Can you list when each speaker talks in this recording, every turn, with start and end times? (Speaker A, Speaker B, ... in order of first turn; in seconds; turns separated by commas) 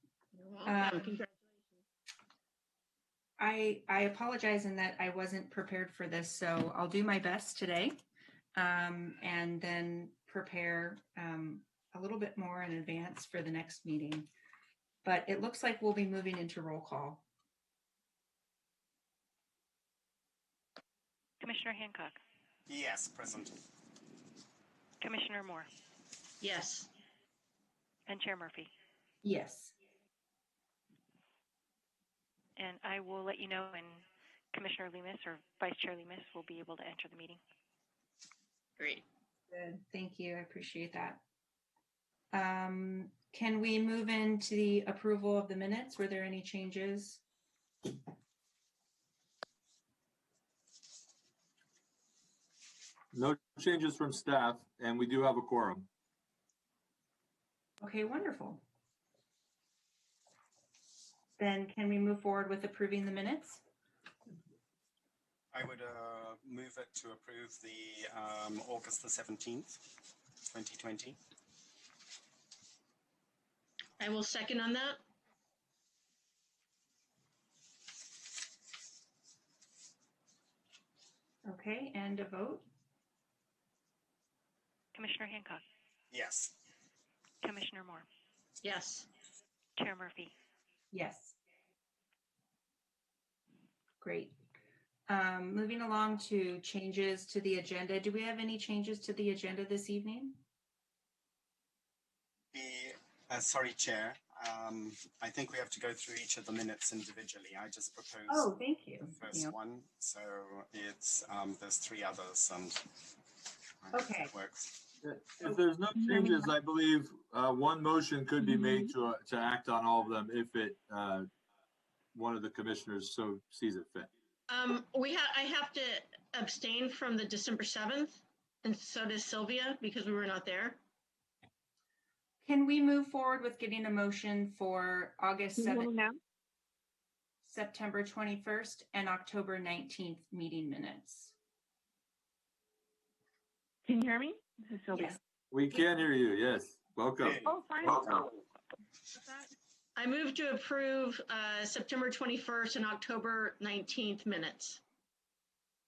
Speaker A: 0.3-1.3, Speaker B: 0.7-1.1, Speaker B: 3.4-8.0, Speaker B: 8.6-14.3, Speaker B: 15.0-17.2, Speaker C: 21.4-22.2, Speaker D: 22.7-23.6, Speaker C: 25.0-25.7, Speaker A: 26.4-26.9, Speaker C: 28.1-28.7, Speaker B: 29.2-29.7, Speaker C: 32.6-37.4, Speaker A: 38.8-39.0, Speaker B: 39.5-41.2, Speaker B: 42.3-47.2, Speaker E: 53.1-55.9, Speaker B: 57.8-58.6, Speaker B: 61.4-63.6, Speaker D: 65.5-69.9, Speaker D: 70.5-71.2, Speaker A: 74.0-75.0, Speaker B: 81.5-82.7, Speaker C: 84.9-85.6, Speaker D: 86.1-86.6, Speaker C: 87.4-88.1, Speaker A: 88.6-89.1, Speaker C: 89.8-90.3, Speaker B: 90.9-91.4, Speaker B: 94.0-94.4, Speaker B: 95.1-100.4, Speaker D: 102.5-108.5, Speaker B: 108.3-109.5, Speaker D: 109.2-113.2, Speaker D: 113.8-114.9, Speaker B: 113.9-114.3, Speaker E: 115.0-121.3, Speaker F: 116.0-116.5, Speaker F: 118.4-118.9, Speaker E: 122.1-124.1, Speaker A: 124.5-130.8, Speaker B: 132.4-135.9, Speaker F: 135.6-136.2, Speaker B: 137.4-141.3, Speaker F: 143.9-145.2, Speaker B: 144.9-145.2, Speaker E: 145.5-147.4, Speaker D: 147.2-147.9, Speaker F: 147.4-148.3, Speaker A: 150.0-154.8